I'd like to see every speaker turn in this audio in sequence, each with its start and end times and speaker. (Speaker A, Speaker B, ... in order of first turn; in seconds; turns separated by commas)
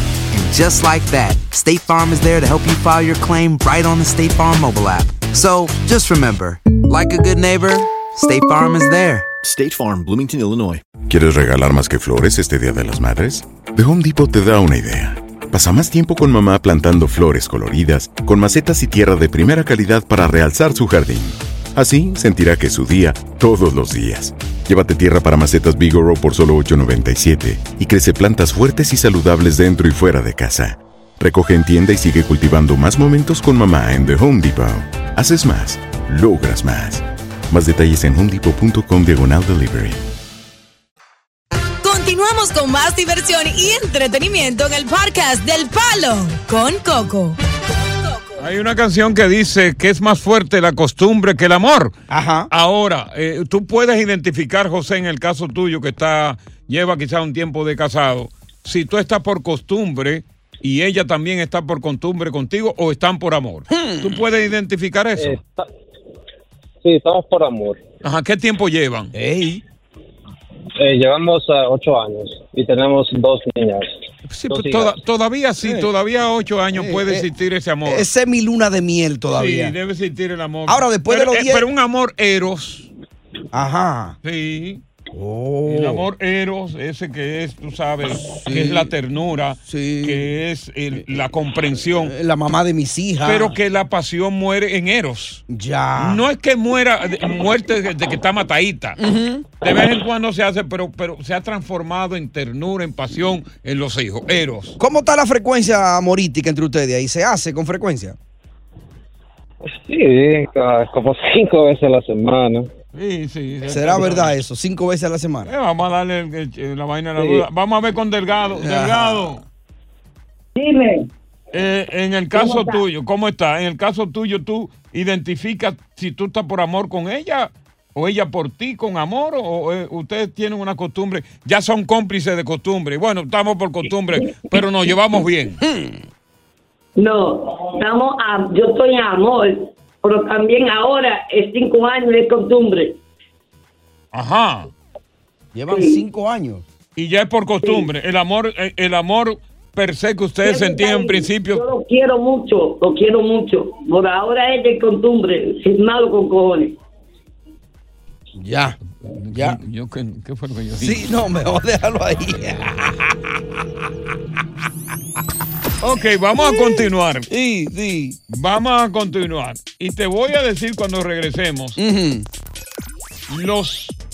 Speaker A: 0.3-9.3, Speaker B: 11.1-40.0, Speaker C: 41.8-47.4, Speaker C: 48.0-48.3, Speaker D: 48.4-51.9, Speaker E: 52.1-52.5, Speaker D: 52.5-65.4, Speaker E: 63.7-64.2, Speaker F: 65.2-65.7, Speaker F: 66.8-67.8, Speaker D: 68.0-69.1, Speaker E: 69.1-69.6, Speaker F: 70.8-73.9, Speaker D: 74.3-78.1, Speaker F: 74.5-74.9, Speaker E: 75.6-75.9, Speaker E: 76.7-77.3, Speaker E: 77.8-79.7, Speaker D: 79.3-82.9, Speaker E: 80.7-81.7, Speaker E: 83.5-84.2, Speaker D: 84.2-84.8, Speaker E: 85.1-86.0, Speaker D: 85.7-92.1, Speaker E: 88.1-88.9, Speaker E: 89.6-90.3, Speaker E: 92.0-93.5, Speaker D: 93.2-95.4, Speaker E: 95.5-96.2, Speaker D: 96.0-99.0, Speaker E: 99.0-99.5, Speaker D: 99.6-104.8, Speaker E: 104.8-108.2, Speaker F: 109.9-112.7, Speaker D: 112.9-114.4, Speaker E: 113.7-115.5, Speaker D: 115.5-119.4, Speaker E: 118.5-119.4, Speaker G: 120.5-121.1, Speaker D: 121.5-135.6, Speaker G: 122.3-122.8, Speaker E: 135.6-136.0, Speaker G: 137.0-143.0, Speaker D: 144.1-144.7, Speaker E: 145.5-146.6, Speaker G: 145.7-146.0, Speaker D: 146.9-151.6, Speaker G: 150.4-156.8, Speaker E: 158.3-158.8, Speaker D: 159.1-161.0, Speaker E: 159.3-159.6, Speaker E: 160.8-163.1, Speaker D: 165.8-167.3, Speaker E: 167.3-168.2, Speaker D: 168.3-171.8, Speaker E: 171.8-172.3, Speaker D: 173.3-174.0